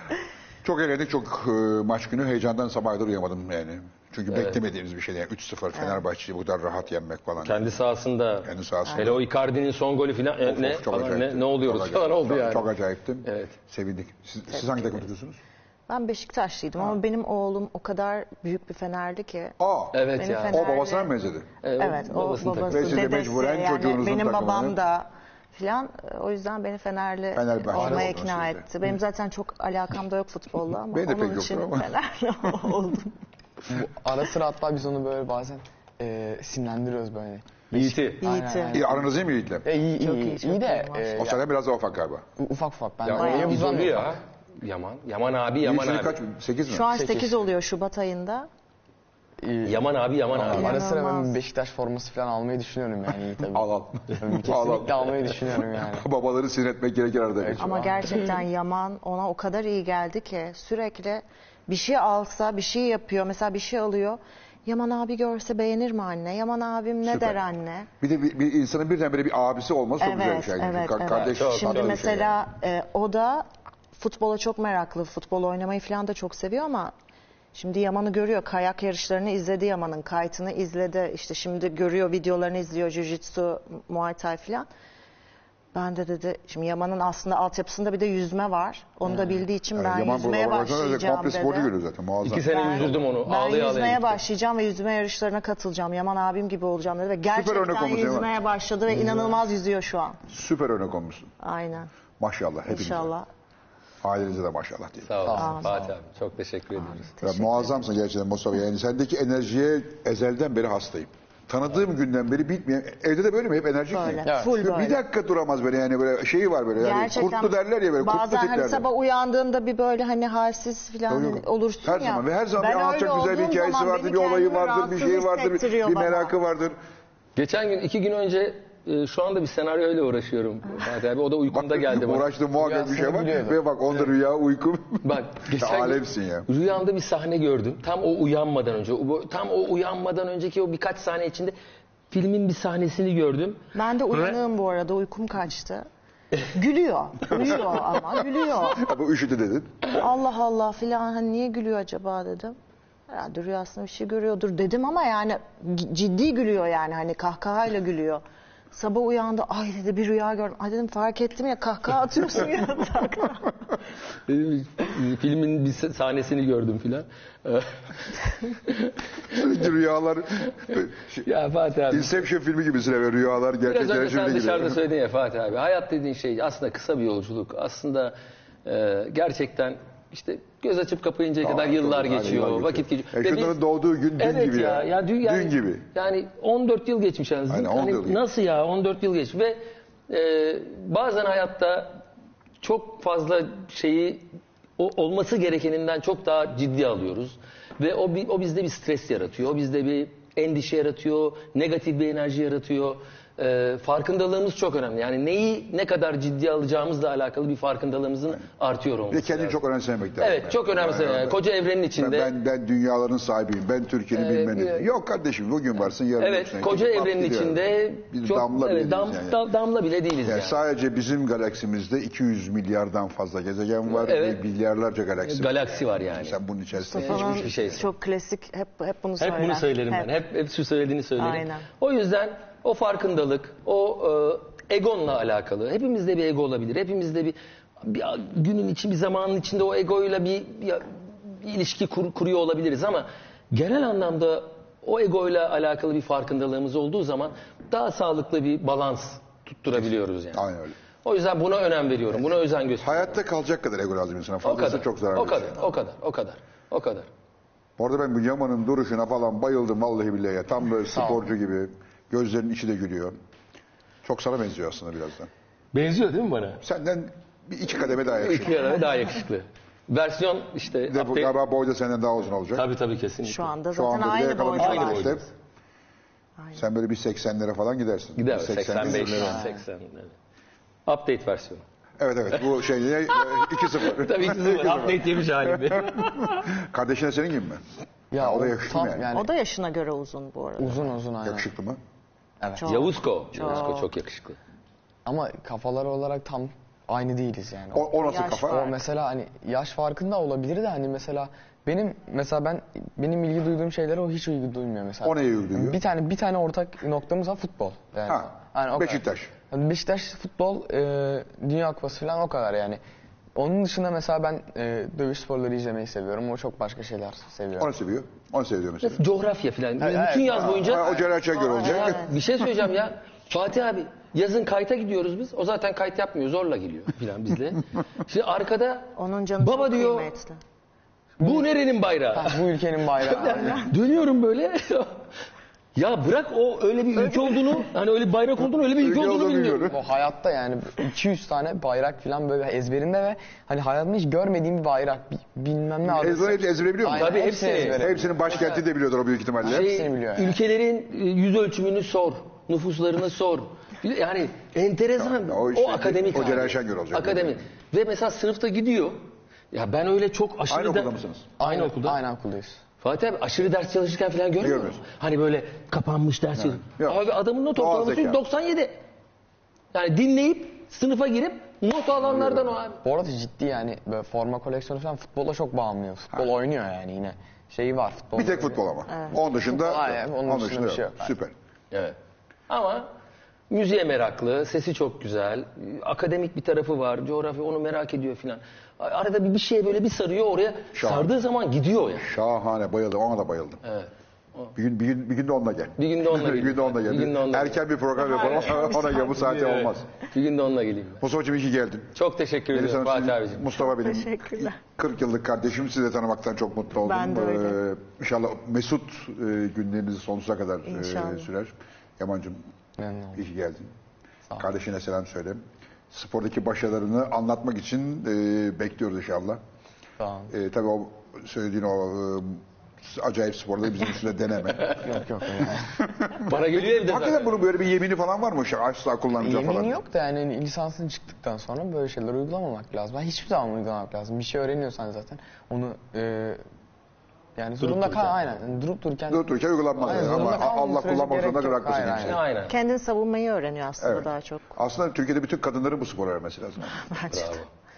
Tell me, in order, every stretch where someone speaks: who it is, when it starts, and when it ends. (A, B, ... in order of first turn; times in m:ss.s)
0:00.6-0:07.7 A
0:07.4-0:12.7 B
0:08.4-0:09.2 A
0:10.4-0:15.4 A
0:13.2-0:13.5 B
0:14.5-0:15.0 C
0:15.9-0:19.6 C
0:19.6-0:21.5 A
0:19.9-0:20.7 B
0:20.2-0:21.1 C
0:21.6-0:23.1 B
0:21.8-0:33.1 C
0:22.7-0:24.8 A
0:27.3-0:28.6 A
0:27.7-0:28.1 D
0:30.9-0:31.9 A
0:33.7-0:39.1 D
0:37.7-0:38.2 B
0:38.2-0:38.9 C
0:38.7-0:39.6 A
0:39.6-0:41.4 D
0:39.9-0:41.2 C
0:41.2-0:42.2 A
0:42.4-0:44.2 D
0:43.0-0:46.2 B
0:43.1-0:43.7 C
0:45.6-0:46.9 A
0:46.7-0:48.5 C
0:46.9-0:47.4 D
0:49.4-0:56.0 D
0:49.6-0:50.8 B
0:50.4-0:51.4 C
0:53.5-0:55.3 A
0:55.9-0:57.7 A
0:57.4-0:58.4 D
0:57.6-1:07.9 C
1:07.0-1:07.4 A
1:08.0-1:12.3 A
1:10.0-1:16.9 C
1:11.1-1:12.2 B
1:17.5-1:24.7 C
1:25.7-1:31.7 C
1:29.7-1:32.9 A
1:32.2-1:34.2 B
1:32.5-1:40.2 C
1:37.3-1:38.3 A
1:38.9-1:39.3 D
1:40.3-1:41.3 A
1:41.4-1:41.9 C
1:42.2-1:43.1 A
1:42.7-1:43.3 C
1:44.0-1:45.4 A
1:45.1-1:47.1 B
1:45.2-1:45.7 D
1:45.4-1:45.6 C
1:47.2-1:47.8 C
1:47.2-1:58.9 A
1:53.9-1:55.0 C
1:54.2-1:54.6 D
1:56.8-2:06.3 C
2:01.1-2:06.8 A
2:07.4-2:12.3 B
2:11.5-2:16.5 A
2:12.6-2:13.6 D
2:15.0-2:21.5 B
2:22.1-2:23.6 B
2:23.7-2:25.8 C
2:24.1-2:24.4 B
2:26.5-2:28.9 C
2:28.8-2:29.8 A
2:29.9-2:32.6 C
2:33.1-2:38.2 C
2:38.7-2:43.5 C
2:44.3-2:49.4 B
2:49.3-2:51.3 A
2:51.2-2:52.2 B
2:51.9-2:54.8 A
2:53.7-3:03.6 B
3:01.4-3:05.8 A
3:04.2-3:12.0 B
3:07.5-3:08.2 A
3:12.6-3:29.6 B
3:29.1-3:31.4 A
3:30.2-3:32.3 B
3:32.0-3:39.4 A
3:34.1-3:34.9 B
3:36.2-3:40.6 B
3:40.2-3:47.8 A
3:43.9-3:44.4 B
3:45.2-3:46.4 B
3:46.7-3:50.1 C
3:47.0-3:47.9 B
3:49.2-4:10.4 B
3:51.2-3:51.6 C
4:09.8-4:10.8 A
4:11.0-4:13.2 B
4:12.8-4:15.7 A
4:14.4-4:17.1 B
4:17.8-4:23.1 A
4:20.9-4:21.2 D
4:24.0-4:25.3 A
4:25.7-4:26.6 B
4:26.6-4:28.7 A
4:28.0-4:31.4 B
4:30.9-4:32.6 A
4:32.5-4:33.5 B
4:33.2-4:35.2 C
4:33.7-4:35.2 A
4:34.6-4:35.3 B
4:36.5-4:39.4 A
4:38.2-4:40.1 B
4:38.8-4:39.5 D
4:40.8-4:41.6 B
4:42.0-4:47.6 A
4:43.1-4:46.5 B
4:48.1-4:49.3 D
4:48.2-4:49.1 A
4:49.1-4:50.9 C
4:50.6-4:51.4 D
4:51.2-4:51.8 A
4:52.4-4:52.7 D
4:52.6-4:53.9 C
4:52.7-4:54.4 B
4:53.4-4:53.6 D
4:55.0-4:57.9 D
4:57.7-4:58.7 A
4:58.1-4:58.7 C
4:58.5-5:09.0 D
5:05.0-5:05.8 A
5:08.1-5:09.3 A
5:09.5-5:12.8 D
5:13.3-5:17.7 D
5:17.6-5:19.0 A
5:18.8-5:30.1 B
5:19.8-5:20.7 D
5:20.3-5:22.1 A
5:21.3-5:22.1 C
5:29.0-5:30.4 C
5:31.2-5:31.5 D
5:31.2-5:32.4 B
5:32.1-5:33.7 D
5:33.0-5:35.0 B
5:35.8-5:39.7 B
5:38.8-5:39.8 A
5:39.7-5:48.2 D
5:46.0-5:49.7 A
5:46.9-5:48.6 B
5:49.4-5:50.4 D
5:49.4-6:02.0 B
5:55.0-5:57.4 A
6:00.5-6:01.3 A
6:01.4-6:02.6 D
6:02.8-6:08.8 B
6:04.4-6:04.8 A
6:06.4-6:07.0 A
6:07.5-6:08.2 A
6:09.7-6:12.8 B
6:12.8-6:18.6 D
6:18.2-6:21.3 A
6:19.4-6:21.1 D
6:22.5-6:22.9 B
6:23.5-6:32.1 B
6:30.7-6:31.1 A
6:32.0-6:33.6 A
6:33.6-6:34.5 B
6:34.6-6:39.8 A
6:35.8-6:37.6 B
6:38.0-6:39.4 C
6:39.2-6:41.0 B
6:41.0-6:42.0 A
6:42.0-6:43.5 B
6:42.5-6:52.4 A
6:43.6-6:44.6 C
6:46.8-6:47.6 C
6:50.7-6:51.3 C
6:52.8-6:53.2 D
6:53.1-6:53.7 A
6:54.4-6:59.4 A
7:00.0-7:00.3 D
7:00.3-7:04.8 A
7:04.8-7:05.7 D
7:05.8-7:09.8 A
7:06.1-7:07.5 B
7:09.2-7:16.4 D
7:17.4-7:19.2 D
7:19.1-7:22.2 A
7:19.8-7:22.2 D
7:19.9-7:20.1 B
7:22.0-7:22.6 B
7:22.5-7:24.5 C
7:23.8-7:26.8 A
7:26.8-7:27.4 C
7:27.1-7:27.5 B